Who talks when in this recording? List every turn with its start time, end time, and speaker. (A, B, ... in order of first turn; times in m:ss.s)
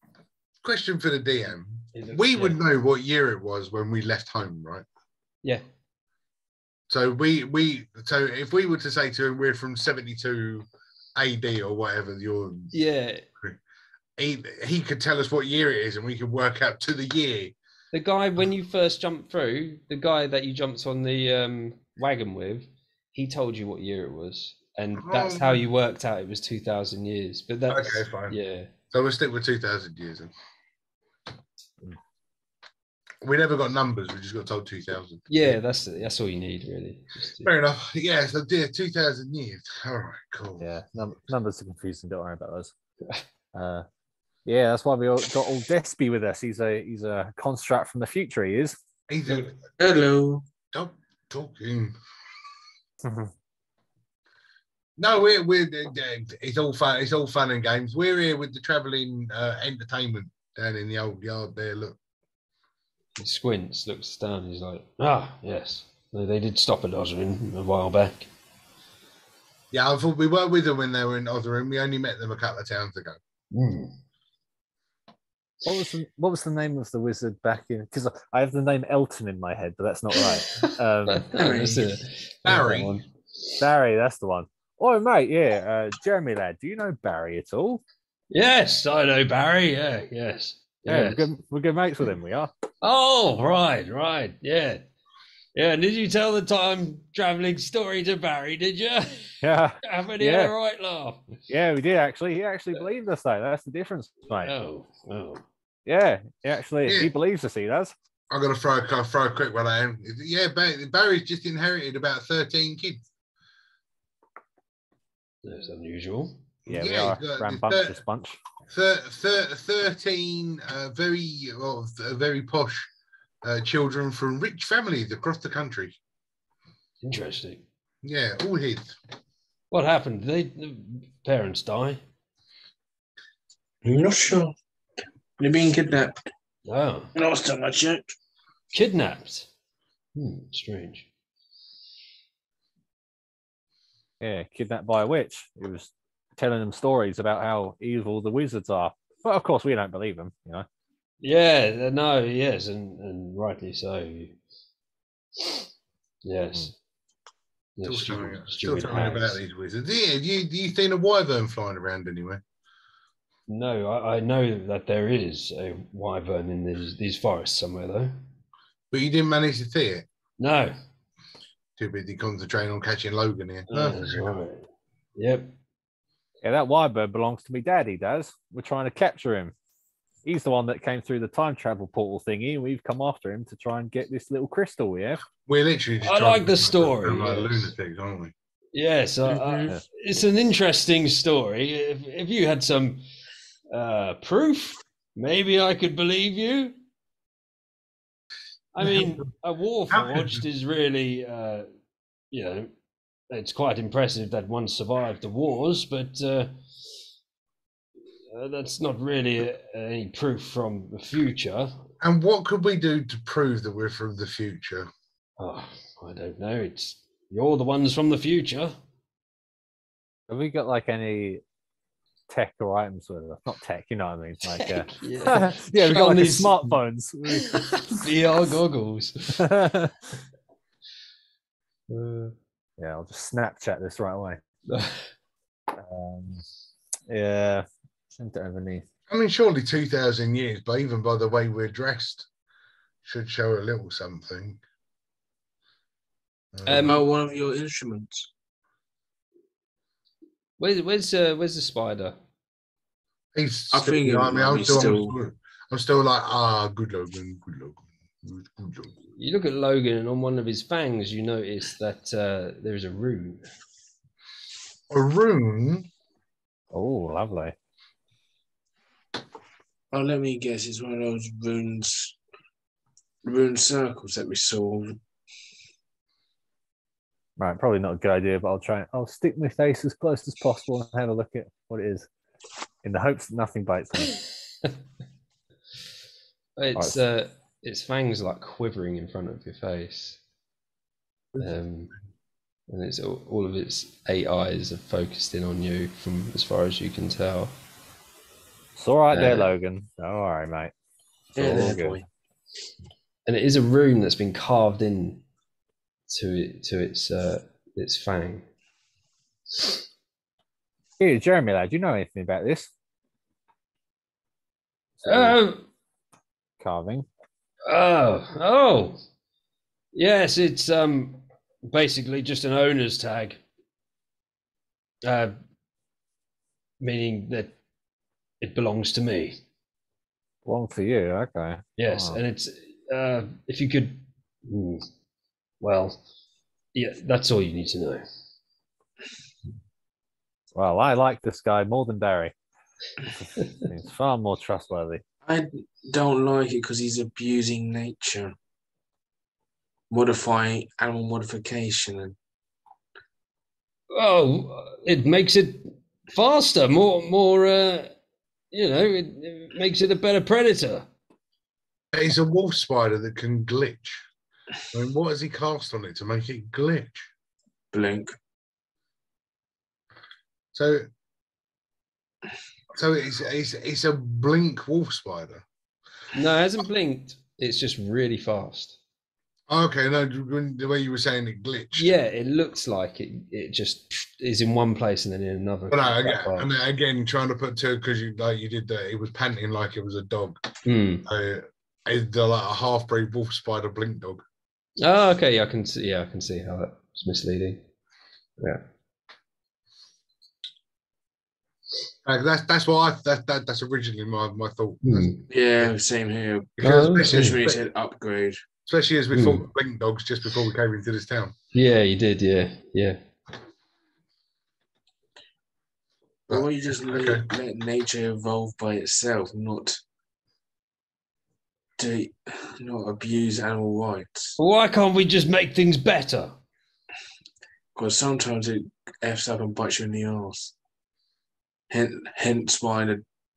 0:00.6-0:04.9 A
0:01.9-0:02.6 B
0:06.9-0:12.7 A
0:12.7-0:13.3 B
0:14.2-0:17.6 A
0:17.9-0:28.7 B
0:25.0-0:25.6 A
0:27.7-0:28.4 A
0:28.9-0:30.3 A
0:33.2-0:35.6 A
0:35.3-0:37.5 B
0:37.4-0:40.7 A
0:40.6-0:42.7 C
0:43.5-0:43.8 C
0:44.5-0:48.8 C
0:49.1-0:49.6 A
0:49.8-0:50.4 D
0:50.7-0:51.9 A
0:53.0-0:53.3 C
0:55.0-1:02.0 A
1:03.2-1:08.3 B
1:09.7-1:13.2 A
1:13.5-1:13.9 B
1:15.6-1:21.6 C
1:20.2-1:23.5 B
1:21.3-1:22.0 D
1:22.5-1:23.0 A
1:23.6-1:27.8 C
1:28.3-1:31.2 B
1:30.9-1:32.5 C
1:32.8-1:34.8 B
1:35.6-1:41.2 B
1:39.4-1:40.5 C
1:41.5-1:44.5 C
1:44.4-1:45.4 B
1:45.9-1:47.9 C
1:46.9-1:47.1 A
1:48.3-1:53.0 A
1:55.4-1:56.4 B
1:56.6-1:58.0 A
1:56.7-1:58.4 C
1:58.7-2:02.9 A
2:03.4-2:06.0 A
2:07.0-2:07.6 B
2:08.0-2:09.0 A
2:09.7-2:12.0 B
2:13.8-2:14.5 D
2:15.4-2:16.3 D
2:16.6-2:17.1 B
2:17.1-2:18.1 D
2:18.7-2:19.5 B
2:20.2-2:21.1 B
2:24.2-2:30.6 C
2:31.2-2:34.4 B
2:36.2-2:36.7 B
2:37.8-2:39.4 B
2:37.8-2:42.4 A
2:38.9-2:39.1 C
2:43.5-2:48.2 B
2:48.9-2:50.1 A
2:50.4-2:50.8 B
2:51.8-2:54.4 A
2:53.7-2:55.5 B
2:56.4-2:59.5 C
3:00.2-3:05.2 C
3:05.4-3:08.3 A
3:06.0-3:07.7 B
3:08.7-3:13.0 B
3:09.3-3:09.7 D
3:13.7-3:16.8 B
3:18.7-3:21.7 B
3:19.9-3:20.4 A
3:22.3-3:22.7 B
3:23.3-3:26.6 B
3:28.3-3:31.8 B
3:32.0-3:34.9 A
3:35.4-3:38.8 B
3:40.3-3:41.4 C
3:42.3-3:47.9 C
3:44.5-3:46.8 B
3:47.4-3:49.5 B
3:49.4-3:50.0 C
3:51.9-3:52.4 B
3:52.8-3:54.4 C
3:54.7-3:55.1 B
3:55.7-3:56.4 C
3:57.1-3:58.9 C
3:59.1-4:02.3 A
4:03.0-4:04.6 A
4:06.5-4:07.0 A
4:06.7-4:07.0 B
4:06.8-4:08.3 D
4:10.6-4:12.2 B
4:13.4-4:19.0 A
4:13.7-4:15.2 D
4:19.2-4:23.4 B
4:24.9-4:25.9 A
4:26.7-4:27.6 C
4:29.9-4:32.2 D
4:33.2-4:35.0 D
4:37.4-4:42.1 C
4:42.8-4:44.2 C
4:46.6-4:50.2 B
4:46.7-4:47.0 C
4:51.4-4:51.9 B
4:52.7-4:57.5 B
4:58.8-5:00.7 C
4:59.1-4:59.5 B
5:01.4-5:02.0 C
5:01.4-5:02.0 D
5:01.4-5:01.7 B
5:03.3-5:05.2 B
5:06.1-5:08.5 B
5:11.0-5:12.7 C
5:15.0-5:15.4 C
5:15.1-5:15.7 B
5:16.6-5:17.1 C
5:17.7-5:19.0 B
5:19.9-5:23.4 B
5:25.0-5:25.4 B
5:26.8-5:27.6 B
5:28.4-5:29.4 B
5:30.4-5:32.2 C
5:31.8-5:34.9 B
5:35.6-5:36.0 B
5:36.7-5:38.0 B
5:40.6-5:42.3 C
5:43.2-5:45.0 C
5:45.3-5:48.3 D
5:49.9-5:52.2 D
5:53.9-5:58.0 B
5:58.5-6:00.9 B
6:01.9-6:04.0 A
6:04.7-6:07.1 A
6:07.7-6:08.2 D
6:10.5-6:10.9 A
6:12.7-6:15.4 A
6:16.1-6:18.8 B
6:19.5-6:21.9 A
6:21.7-6:26.5 B
6:25.7-6:30.5 A
6:30.6-6:31.1 B
6:31.1-6:34.2 A
6:34.8-6:37.6 B
6:42.0-6:45.7 A
6:44.8-6:45.2 B
6:45.3-6:48.4 D
6:46.6-6:47.6 A
6:46.6-6:47.4 B
6:48.7-6:51.4 A
6:49.1-6:49.5 B
6:51.5-6:53.0 B
6:56.3-6:57.2 A
6:56.3-6:59.8 D
7:01.8-7:04.4 D
7:04.4-7:06.4 B
7:07.8-7:10.5 D
7:11.7-7:13.0 D